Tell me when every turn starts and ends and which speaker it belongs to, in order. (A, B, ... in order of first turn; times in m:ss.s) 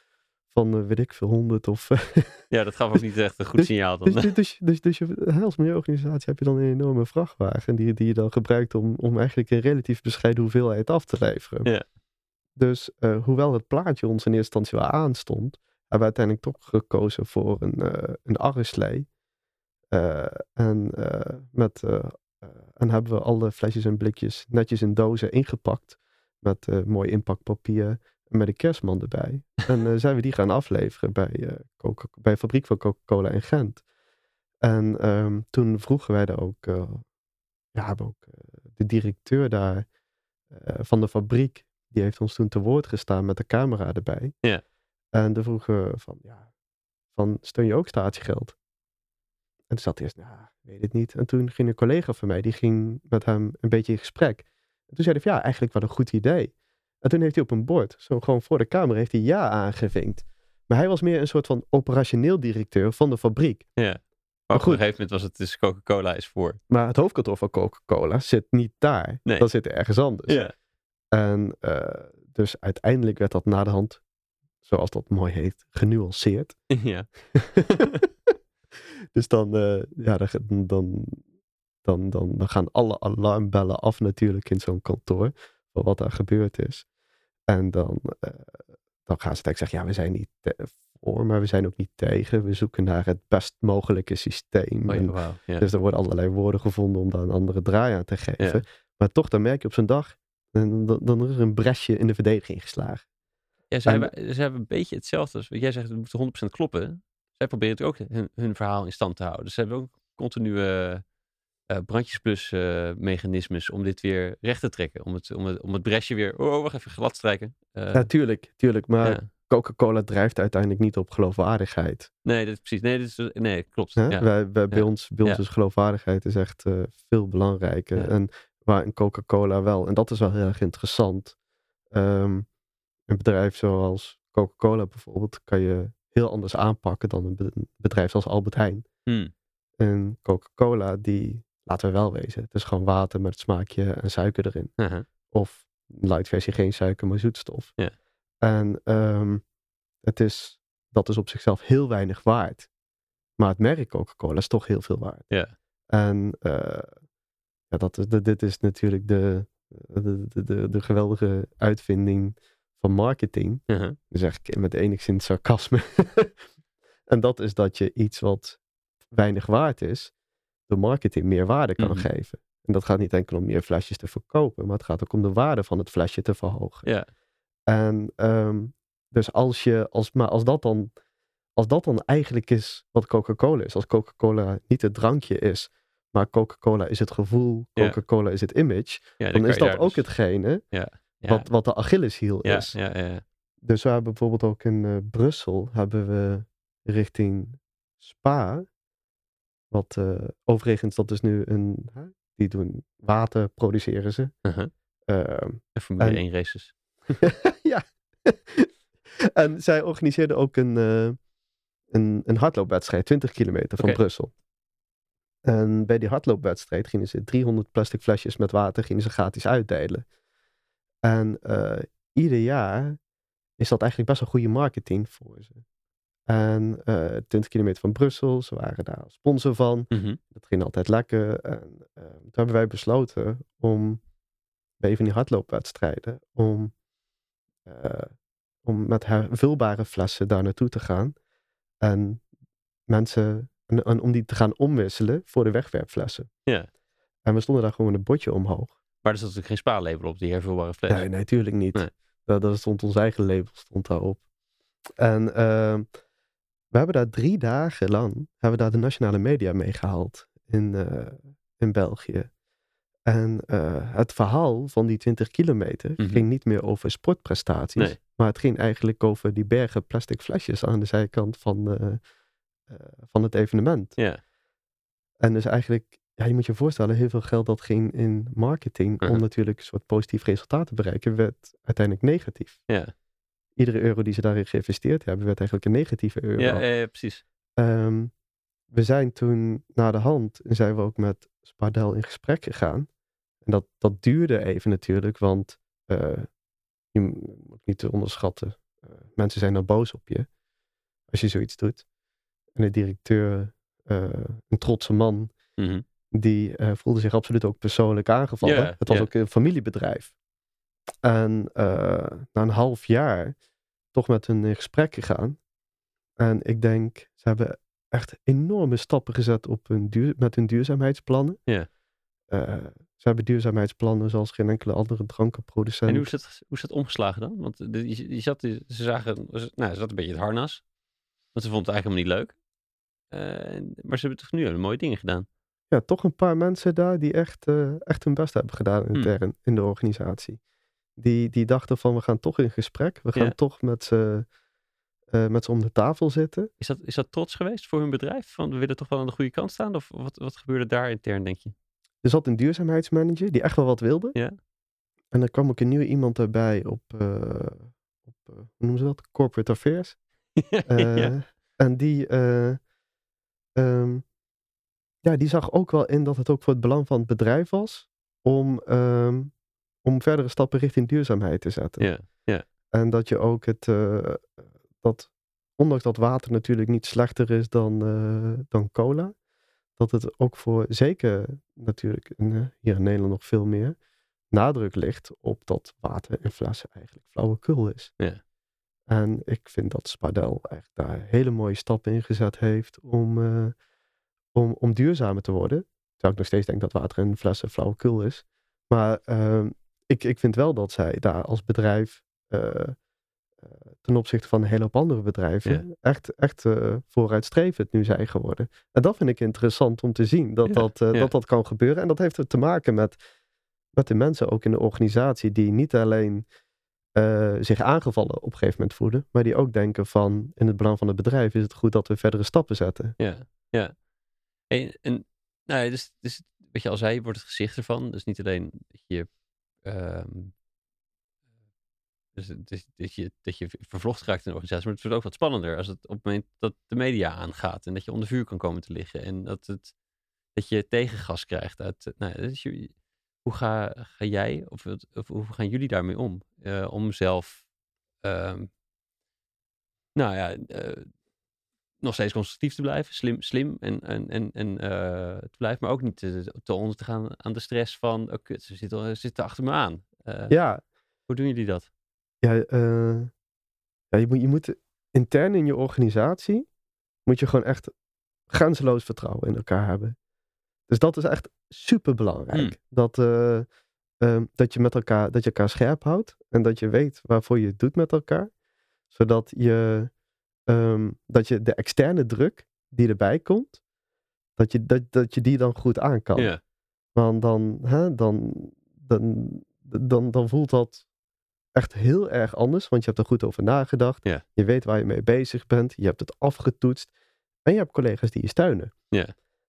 0:00.5-0:02.4 A
0:02.5-0:04.3 B
0:03.6-0:11.7 A
0:12.6-0:19.1 A
0:19.9-0:33.8 A
0:34.6-0:37.0 A
0:37.7-0:39.9 A
0:40.5-0:44.3 A
0:45.1-0:46.5 A
0:47.1-0:48.5 A
0:49.7-1:03.7 A
1:03.8-1:06.6 B
1:04.5-1:04.8 A
1:06.7-1:10.4 A
1:10.3-1:10.5 B
1:11.1-1:14.0 A
1:14.6-1:16.6 A
1:16.7-1:17.1 B
1:17.3-1:18.3 A
1:17.7-1:18.0 B
1:19.1-1:21.2 A
1:21.8-1:26.8 A
1:27.5-1:43.0 A
1:34.9-1:35.7 B
1:43.7-1:51.0 B
1:43.8-1:44.1 A
1:51.7-1:58.1 B
1:57.9-2:02.1 A
2:02.2-2:05.4 B
2:04.0-2:11.3 A
2:11.9-2:12.5 A
2:13.1-2:18.8 A
2:19.1-2:19.3 B
2:19.8-2:24.7 A
2:24.8-2:25.0 B
2:25.3-2:27.8 A
2:28.4-2:29.4 A
2:30.0-2:32.7 A
2:33.4-2:35.3 A
2:35.9-2:37.0 A
2:37.7-2:46.3 A
2:43.7-2:44.0 B
2:47.1-2:48.6 A
2:49.1-2:50.1 A
2:50.7-2:56.8 A
2:51.8-2:52.1 B
2:57.7-3:00.9 A
3:01.6-3:10.6 A
3:09.2-3:10.0 B
3:10.7-3:11.5 B
3:11.3-3:12.7 A
3:12.4-3:13.2 B
3:13.6-3:18.6 A
3:19.7-3:24.3 A
3:24.4-3:24.7 B
3:25.1-3:26.2 A
3:25.8-3:27.2 B
3:27.2-3:31.2 A
3:31.9-3:34.3 A
3:35.4-3:40.1 A
3:41.0-3:43.0 A
3:43.6-3:45.6 A
3:46.3-3:54.0 A
3:49.9-3:50.2 B
3:54.8-3:56.7 A
3:57.6-3:58.1 A
3:58.6-4:01.2 A
4:01.8-4:02.2 A
4:02.9-4:06.3 A
4:07.2-4:08.8 A
4:09.0-4:11.1 B
4:10.9-4:14.2 A
4:15.0-4:15.9 A
4:16.7-4:22.3 A
4:23.0-4:32.0 A
4:26.0-4:26.2 B
4:32.7-4:34.0 A
4:35.2-4:42.6 A
4:43.6-4:46.6 A
4:46.4-4:47.2 B
4:47.6-4:48.1 A
4:48.7-4:52.9 A
4:53.4-4:56.3 A
4:56.9-5:00.3 A
5:01.1-5:01.8 A
5:02.6-5:05.3 A
5:05.6-5:05.8 B
5:06.1-5:10.1 A
5:08.4-5:09.1 B
5:11.0-5:13.4 A
5:13.9-5:15.4 A
5:16.2-5:21.4 A
5:22.3-5:26.1 A
5:25.8-5:30.6 B
5:31.3-5:32.4 B
5:33.1-5:35.3 B
5:35.7-5:40.4 A
5:41.0-5:44.3 A
5:45.1-5:46.5 A
5:46.6-5:51.5 B
5:52.0-5:54.2 A
5:55.1-6:00.0 A
6:00.4-6:01.1 B
6:00.7-6:02.6 A
6:03.6-6:04.0 A
6:05.0-6:09.3 A
6:09.8-6:11.9 A
6:11.8-6:12.4 B
6:12.7-6:19.2 A
6:19.8-6:23.8 A
6:24.3-6:27.9 A
6:28.9-6:33.6 A
6:34.3-6:42.8 A
6:43.4-6:53.0 A
6:50.5-6:51.1 B
6:53.7-6:56.2 A
6:57.0-7:03.0 A
7:03.0-7:03.8 B
7:04.5-7:09.1 B
7:09.6-7:10.3 B
7:12.1-7:19.7 B
7:20.3-7:22.7 B
7:23.2-7:27.4 B
7:28.0-7:28.5 B
7:30.0-7:30.9 B
7:31.8-7:40.3 B
7:40.3-7:40.6 A
7:41.1-7:41.7 B
7:42.2-7:43.1 A
7:43.9-7:46.5 A
7:47.0-7:47.7 A
7:48.3-7:50.0 A
7:50.7-7:53.5 A
7:54.0-7:58.3 A
7:58.9-7:59.9 A
8:00.5-8:03.6 A
8:04.4-8:06.3 A
8:06.1-8:06.4 B
8:06.9-8:10.8 A
8:11.5-8:16.9 A
8:17.4-8:18.7 A